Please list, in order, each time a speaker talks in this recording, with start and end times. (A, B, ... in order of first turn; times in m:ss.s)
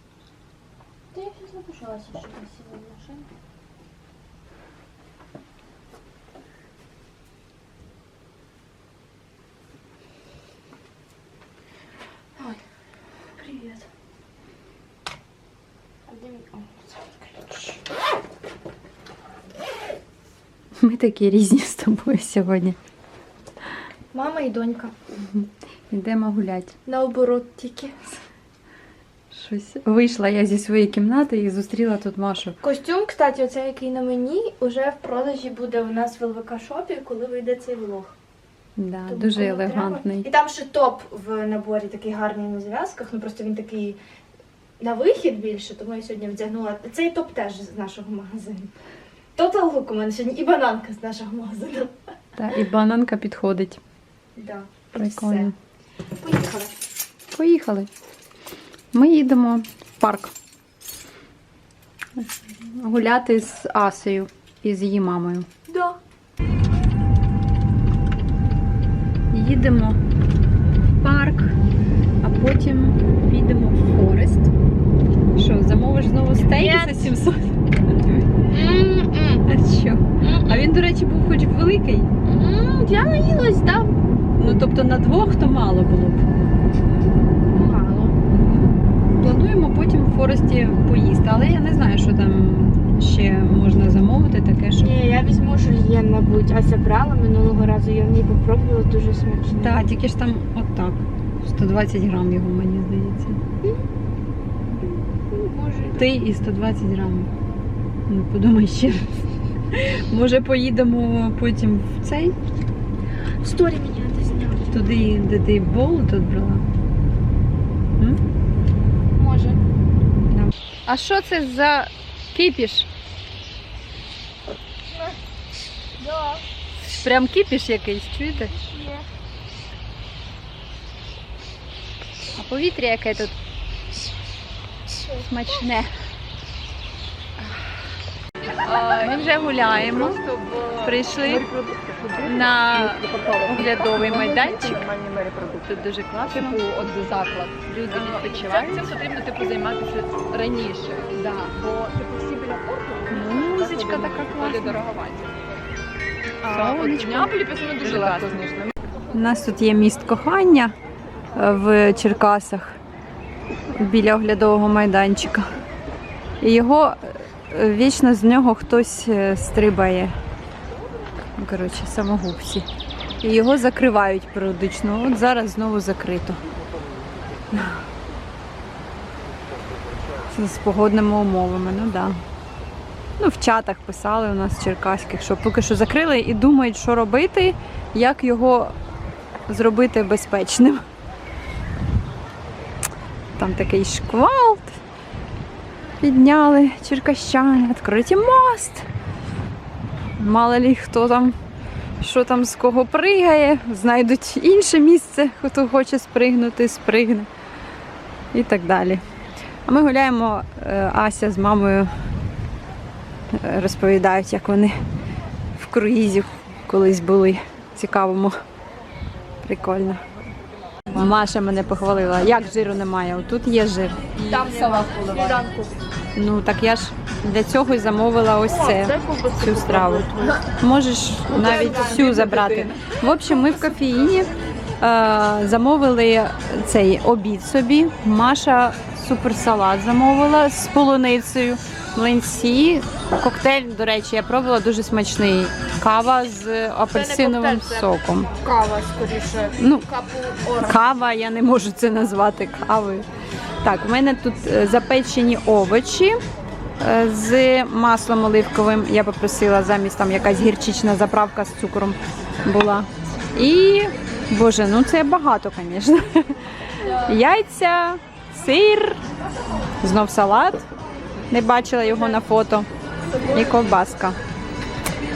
0:01.1-0:03.3 A
0:13.4-0:13.9 A
0:16.1-0:17.6 A
0:20.8-0:22.8 B
0:24.1-0:24.9 A
0:25.2-0:26.8 B
0:26.9-0:28.2 A
0:29.3-0:32.6 B
0:32.6-0:38.1 A
0:38.8-0:40.3 B
0:39.1-0:44.0 A
0:44.8-0:48.7 A
0:49.4-0:51.9 A
0:52.4-0:53.8 B
0:54.4-0:55.5 A
0:55.0-0:55.5 B
0:56.2-0:56.8 A
0:57.3-0:57.9 B
0:58.9-1:00.3 B
1:02.2-1:05.5 B
1:05.7-1:06.0 A
1:09.3-1:10.0 B
1:11.0-1:11.6 B
1:12.2-1:14.5 B
1:15.3-1:18.2 B
1:16.4-1:17.1 A
1:18.5-1:19.4 A
1:19.5-1:22.1 B
1:20.2-1:20.6 A
1:22.2-1:24.0 A
1:24.4-1:26.3 B
1:27.5-1:28.2 A
1:29.1-1:34.9 B
1:34.8-1:39.8 A
1:39.5-1:43.4 B
1:45.3-1:46.1 A
1:45.9-1:47.3 B
1:48.1-1:49.0 B
1:49.7-1:52.4 B
1:53.4-1:54.9 A
1:54.7-1:56.7 B
1:59.2-1:59.6 A
2:00.3-2:02.9 B
2:06.0-2:06.4 A
2:06.9-2:08.5 B
2:08.4-2:09.0 A
2:12.3-2:13.4 B
2:15.0-2:15.2 A
2:15.0-2:15.9 B
2:18.7-2:20.2 B
2:18.7-2:25.7 C
2:20.8-2:21.5 B
2:22.2-2:24.9 B
2:25.6-2:26.6 B
2:26.3-2:35.4 C
2:27.6-2:29.0 B
2:33.1-2:34.8 B
2:36.4-2:38.7 C
2:36.5-2:38.4 B
2:39.1-2:40.7 B
2:41.3-2:42.8 B
2:43.7-2:45.4 B
2:46.4-2:50.2 B
2:51.4-2:52.7 B
2:53.2-2:56.4 B
3:00.3-3:02.2 B
3:03.2-3:08.7 B
3:09.5-3:10.8 B
3:13.4-3:14.8 B
3:16.0-3:18.9 B
3:20.2-3:21.4 B
3:22.0-3:27.3 B
3:28.3-3:29.0 B
3:29.7-3:31.9 B
3:33.3-3:34.7 B
3:35.6-3:38.3 B
3:39.4-3:40.0 B
3:40.9-3:44.1 B
3:44.2-3:45.8 A
3:44.2-3:45.4 C
3:46.2-4:08.3 B
3:48.5-3:50.4 A
3:51.3-3:52.9 A
4:06.9-4:10.8 A
4:09.6-4:09.9 B
4:10.6-4:13.0 B
4:13.6-4:16.2 B
4:16.8-4:29.0 B
4:29.8-4:30.6 B
4:31.3-4:32.7 B
4:33.3-4:34.2 B